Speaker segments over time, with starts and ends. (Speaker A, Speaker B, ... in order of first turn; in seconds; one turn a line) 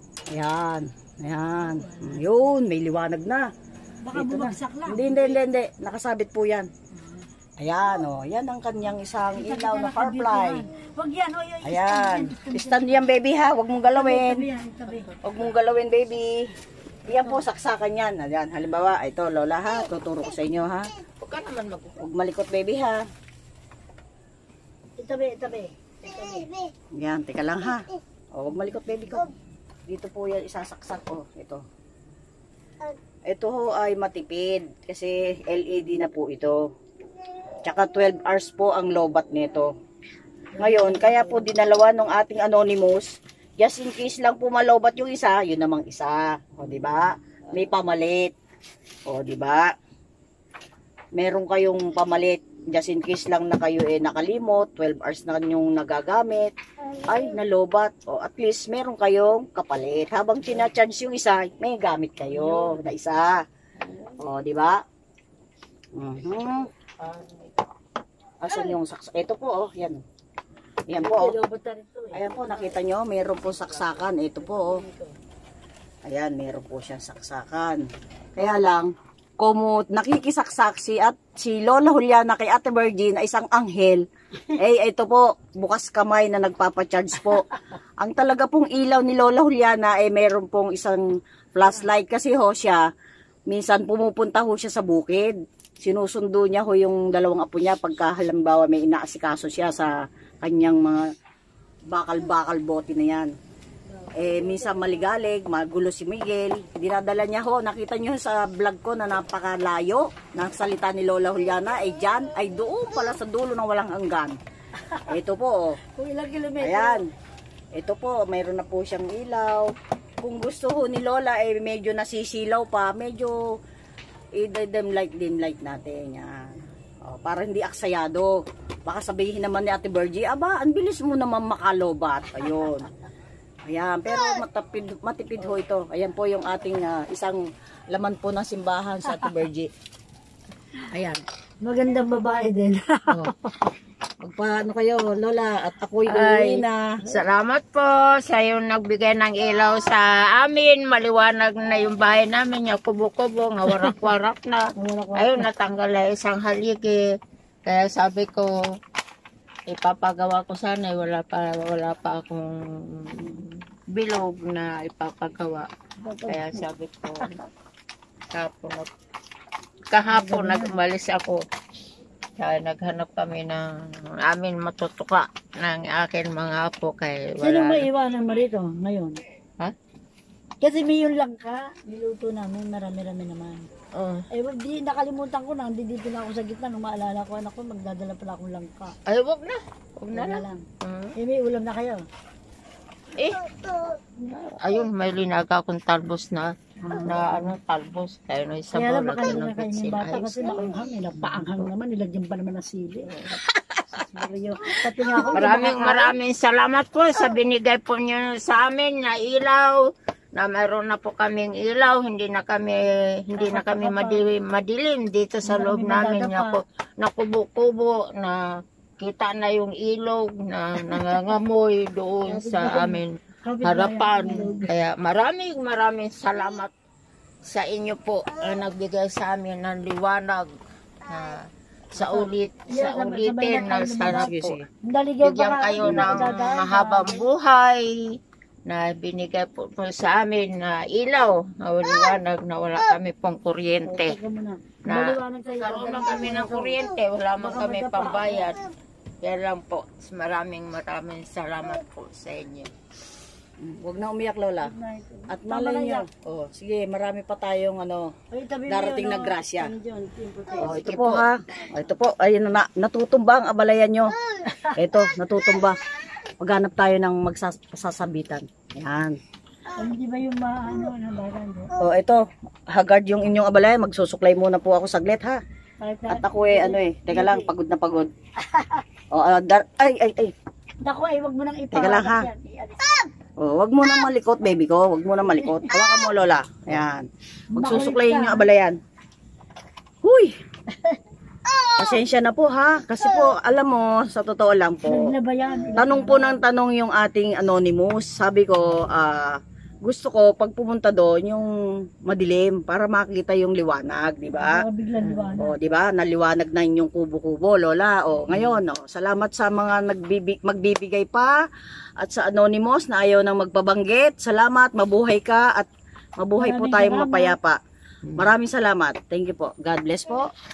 Speaker A: 0.3-3.5
Speaker B: 1.7-2.2
Speaker B: 4.0-5.3
Speaker A: 4.1-6.7
Speaker B: 6.9-7.2
Speaker A: 7.6-10.7
Speaker B: 9.3-13.0
Speaker A: 11.6-14.4
Speaker B: 13.9-15.1
Speaker C: 14.9-15.5
Speaker A: 15.2-16.4
Speaker A: 17.1-20.9
Speaker C: 21.2-22.0
Speaker A: 22.0-23.0
Speaker B: 25.0-26.5
Speaker A: 26.9-27.8
Speaker A: 28.4-29.3
Speaker A: 29.9-31.6
Speaker A: 33.3-36.6
Speaker A: 37.6-39.7
Speaker A: 40.6-48.3
Speaker B: 40.6-41.4
Speaker A: 49.1-49.7
Speaker A: 51.2-56.5
Speaker A: 57.0-63.4
Speaker C: 62.3-62.8
Speaker C: 63.8-64.1
Speaker A: 64.2-64.8
Speaker A: 66.0-66.7
Speaker C: 67.0-67.3
Speaker A: 68.4-70.0
Speaker A: 70.9-71.4
Speaker B: 70.9-72.5
Speaker A: 72.1-74.8
Speaker C: 73.5-74.1
Speaker B: 74.6-75.1
Speaker A: 76.1-77.8
Speaker A: 78.3-84.0
Speaker A: 84.6-87.5
Speaker A: 88.0-91.0
Speaker A: 91.5-92.8
Speaker A: 93.5-99.9
Speaker A: 100.4-101.0
Speaker A: 101.9-103.3
Speaker B: 103.9-105.0
Speaker A: 104.2-114.4
Speaker A: 115.1-115.8
Speaker B: 116.0-117.0
Speaker A: 116.6-117.0
Speaker A: 117.8-119.7
Speaker A: 120.2-123.4
Speaker A: 124.4-126.5
Speaker A: 127.1-128.3
Speaker A: 128.9-132.9
Speaker A: 133.7-139.7
Speaker A: 140.9-141.2
Speaker B: 141.6-143.7
Speaker A: 144.2-146.8
Speaker C: 146.1-157.0
Speaker B: 154.8-155.5
Speaker C: 157.7-158.6
Speaker C: 159.7-165.7
Speaker B: 166.0-166.6
Speaker C: 166.3-167.4
Speaker C: 168.3-168.9
Speaker C: 169.9-171.4
Speaker B: 170.1-170.8
Speaker C: 172.4-177.9
Speaker B: 177.4-179.2
Speaker B: 180.6-183.7
Speaker C: 183.9-184.2
Speaker B: 184.3-188.9
Speaker C: 189.1-191.1
Speaker B: 190.1-190.6
Speaker B: 191.2-192.0
Speaker C: 193.2-193.5
Speaker C: 194.2-200.7
Speaker B: 196.8-197.5
Speaker B: 198.7-203.2
Speaker C: 203.1-203.4
Speaker B: 203.9-206.1
Speaker C: 205.3-218.4
Speaker B: 213.4-214.3
Speaker B: 215.4-216.6
Speaker C: 219.0-223.1
Speaker B: 222.3-224.7
Speaker C: 223.6-226.7
Speaker C: 227.4-230.5
Speaker C: 231.1-234.6
Speaker B: 232.0-234.3
Speaker A: 234.1-234.7
Speaker B: 234.8-237.2
Speaker C: 235.2-238.0
Speaker A: 235.8-236.3
Speaker C: 238.7-244.2
Speaker B: 243.8-246.8
Speaker C: 244.9-248.6
Speaker B: 247.4-248.5
Speaker C: 249.2-252.7
Speaker A: 253.6-254.7
Speaker B: 254.6-256.1
Speaker A: 255.3-258.1
Speaker B: 258.3-260.9
Speaker A: 258.7-259.7
Speaker A: 260.6-264.1
Speaker C: 260.7-261.3
Speaker A: 264.7-265.8
Speaker A: 266.4-269.2
Speaker B: 269.7-271.7
Speaker A: 271.8-275.4
Speaker B: 275.8-277.5
Speaker A: 276.1-278.1
Speaker B: 278.4-278.8
Speaker A: 279.1-280.3
Speaker B: 280.8-283.1
Speaker A: 281.7-282.3
Speaker A: 283.4-288.8
Speaker B: 287.5-288.5
Speaker A: 290.0-290.3
Speaker A: 291.8-295.1
Speaker B: 294.9-296.4
Speaker A: 295.7-301.5
Speaker A: 302.1-304.6
Speaker B: 304.4-305.5
Speaker A: 305.4-311.4
Speaker A: 312.0-315.7
Speaker A: 316.2-317.6
Speaker B: 316.4-317.4
Speaker A: 318.1-320.3